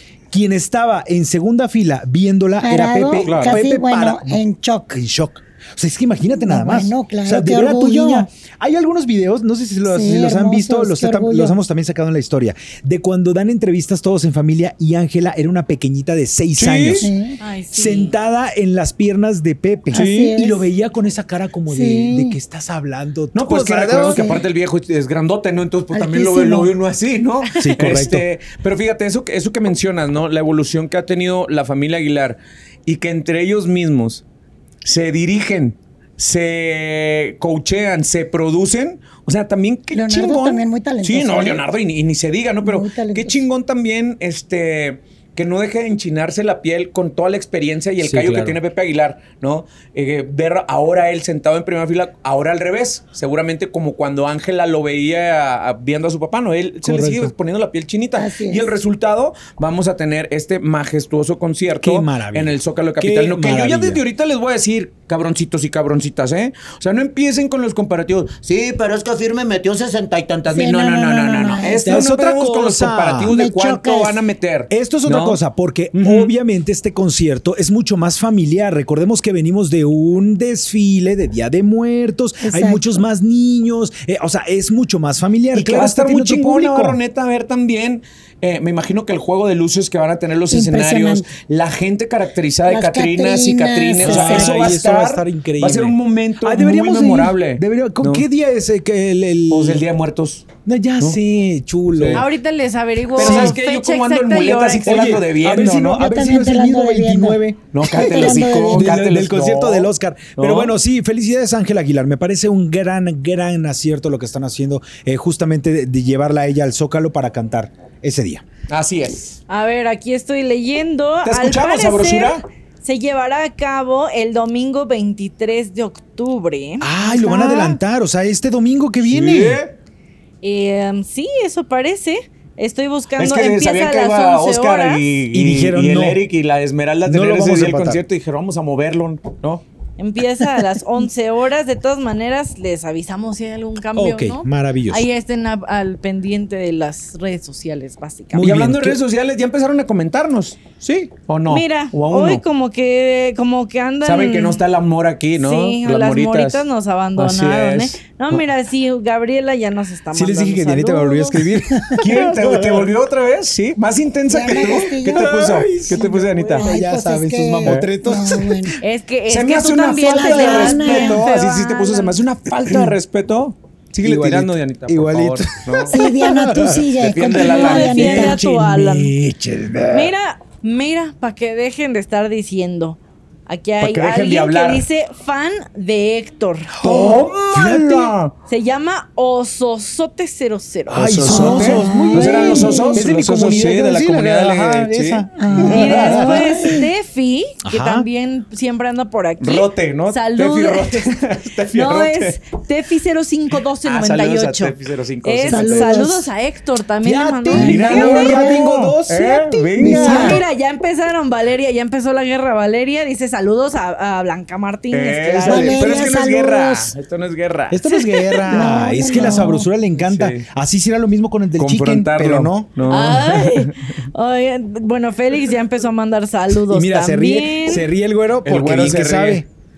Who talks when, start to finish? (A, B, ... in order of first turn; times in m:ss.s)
0:00.3-0:17.1 A
0:02.6-0:05.0 B
0:03.2-0:03.6 C
0:06.4-0:08.3 B
0:09.9-0:11.6 B
0:16.6-0:17.1 C
0:17.0-0:17.4 B
0:17.4-0:18.1 D
0:17.7-0:24.4 A
0:19.9-0:20.6 B
0:19.9-0:20.3 C
0:21.7-0:22.4 B
0:23.3-0:34.2 C
0:24.0-0:24.4 B
0:25.9-0:26.7 B
0:27.6-0:28.3 A
0:34.8-1:15.4 C
0:39.9-0:41.6 B
0:42.6-0:43.4 B
0:48.0-0:48.6 A
0:56.8-0:57.3 A
0:58.2-0:58.7 B
1:01.8-1:04.0 A
1:10.5-1:12.0 B
1:11.8-1:13.3 A
1:13.3-1:14.2 B
1:14.7-1:27.0 A
1:15.9-1:16.3 C
1:22.4-1:22.8 B
1:25.5-1:38.3 C
1:30.5-1:31.3 B
1:32.7-1:34.6 B
1:34.0-1:39.8 A
1:39.5-1:40.5 C
1:40.6-1:42.3 A
1:41.9-1:42.3 C
1:42.1-1:45.1 D
1:43.2-1:46.0 C
1:43.2-1:43.6 A
1:44.8-1:58.4 A
1:45.9-1:48.9 B
1:47.7-1:50.7 C
1:58.7-1:59.4 C
1:59.5-2:06.9 D
2:01.2-2:02.4 C
2:06.8-2:09.6 A
2:09.1-2:09.7 C
2:10.4-2:15.0 D
2:13.2-2:19.6 C
2:15.3-2:16.2 A
2:17.1-2:18.0 A
2:20.0-2:28.5 D
2:24.0-2:25.1 A
2:28.3-2:29.0 A
2:28.4-2:32.4 C
2:31.5-2:34.6 D
2:34.0-2:36.6 C
2:35.4-2:41.4 D
2:37.2-2:38.4 C
2:40.1-2:42.9 A
2:42.0-2:46.7 C
2:44.3-2:45.4 B
2:44.5-2:48.7 A
2:46.6-2:48.8 B
2:47.6-2:47.9 C
2:48.8-2:52.2 D
2:49.3-2:56.0 C
2:49.9-2:51.3 B
2:52.7-2:53.0 A
2:54.0-3:00.0 A
2:55.9-2:58.4 B
2:57.0-2:58.4 C
2:57.4-2:59.1 D
2:59.7-3:00.1 C
2:59.9-3:06.8 D
3:03.8-3:04.9 C
3:06.8-3:08.2 A
3:06.8-3:08.3 C
3:08.5-3:11.3 D
3:10.9-3:16.4 A
3:10.9-3:16.4 C
3:11.3-3:13.0 B
3:15.4-3:16.9 B
3:15.7-3:21.1 D
3:17.6-3:18.1 A
3:19.4-3:22.4 C
3:21.7-3:28.4 D
3:23.8-3:26.0 C
3:25.5-3:26.3 B
3:27.0-3:30.4 A
3:27.5-3:30.4 C
3:27.5-3:28.6 B
3:29.8-3:30.4 B
3:29.8-3:35.9 D
3:34.9-3:37.9 C
3:35.4-3:36.9 B
3:37.7-3:43.2 A
3:37.9-3:38.4 D
3:38.5-3:39.7 B
3:40.0-3:40.4 C
3:41.6-3:43.8 C
3:42.9-3:47.9 D
3:46.7-3:49.5 A
3:48.4-3:49.4 C